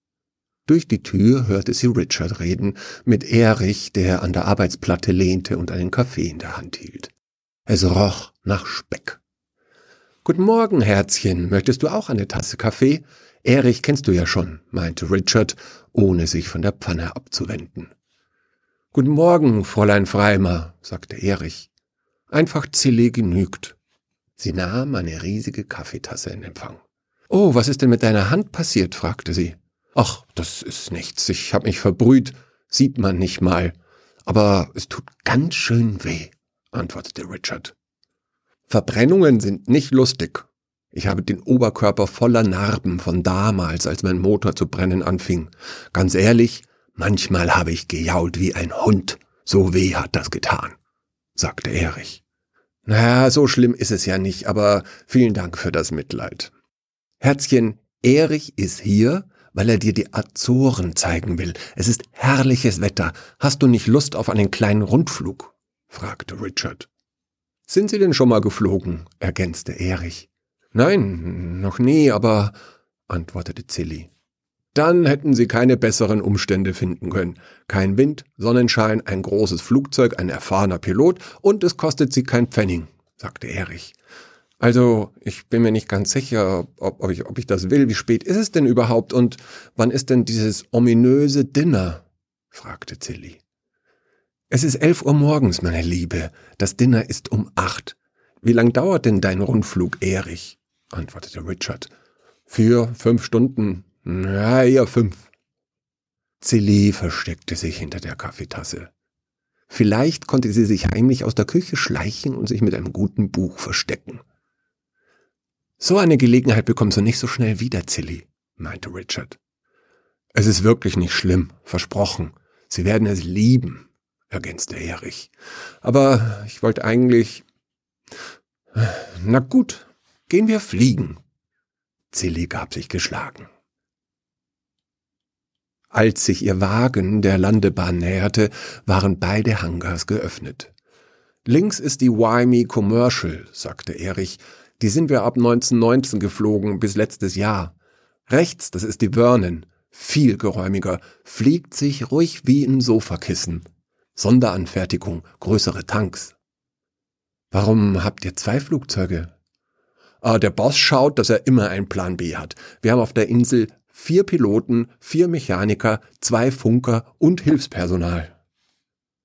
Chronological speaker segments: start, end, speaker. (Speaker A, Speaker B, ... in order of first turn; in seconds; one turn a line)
Speaker A: 0.7-7.1
Speaker A: 7.7-9.2
Speaker A: 10.2-17.9
Speaker A: 18.9-21.7
Speaker A: 22.3-23.8
Speaker A: 24.4-37.7
Speaker A: 38.7-50.8
Speaker A: 51.4-52.2
Speaker A: 52.9-56.5
Speaker A: 57.2-66.9
Speaker A: 67.7-72.5
Speaker A: 73.1-74.1
Speaker A: 74.7-84.0
Speaker A: 84.6-93.4
Speaker A: 94.5-101.9
Speaker A: 102.5-105.3
Speaker A: 106.4-108.9
Speaker A: 109.7-114.2
Speaker A: 115.8-119.4
Speaker A: 120.3-125.3
Speaker A: 125.8-127.4
Speaker A: 128.7-131.2
Speaker A: 132.1-133.5
Speaker A: 135.9-140.7
Speaker A: 141.4-147.7
Speaker A: 148.3-156.3
Speaker A: 157.5-159.3
Speaker A: 160.2-168.3